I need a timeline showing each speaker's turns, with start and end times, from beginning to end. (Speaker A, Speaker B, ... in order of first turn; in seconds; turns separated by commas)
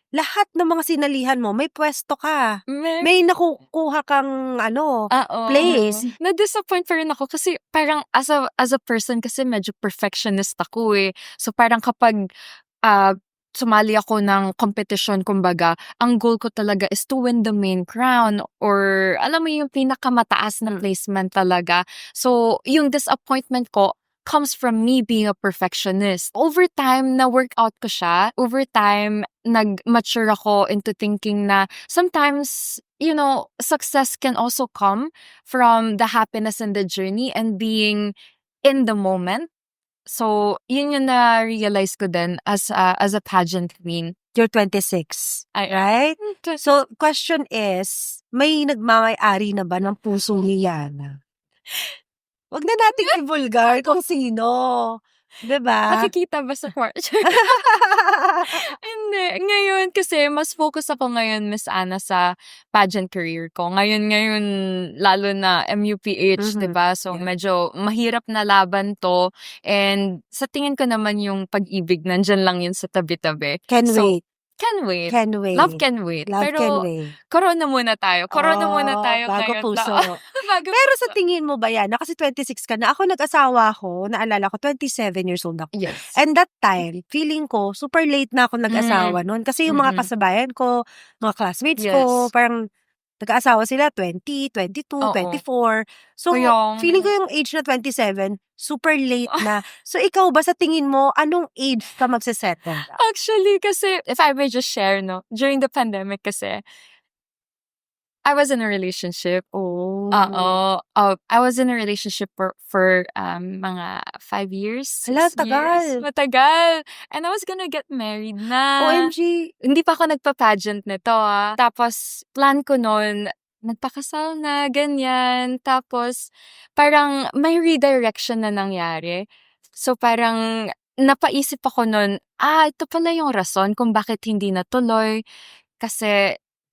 Speaker A: 0.2-2.5, Speaker B: 2.7-3.1, Speaker A: 3.0-6.1, Speaker B: 5.1-12.2, Speaker B: 12.8-38.1, Speaker B: 38.6-39.5, Speaker B: 40.1-44.1, Speaker A: 44.3-51.2, Speaker B: 45.5-46.6, Speaker A: 52.5-56.1, Speaker B: 55.9-57.6, Speaker A: 57.3-58.6, Speaker B: 58.5-64.5, Speaker B: 65.0-81.1, Speaker A: 66.4-67.2, Speaker A: 73.7-74.2, Speaker A: 75.1-77.1, Speaker A: 78.3-80.2, Speaker A: 80.7-90.7, Speaker B: 85.7-86.1, Speaker B: 88.7-90.1, Speaker A: 91.2-92.6, Speaker B: 91.8-92.3, Speaker A: 93.2-102.9, Speaker B: 95.0-95.4, Speaker B: 96.3-97.1, Speaker B: 102.9-106.6, Speaker B: 108.2-109.6, Speaker A: 109.6-110.5, Speaker B: 110.1-119.1, Speaker A: 115.1-116.0, Speaker A: 118.8-119.5, Speaker B: 119.7-129.2, Speaker B: 129.8-130.4, Speaker B: 131.0-135.2, Speaker B: 135.8-136.3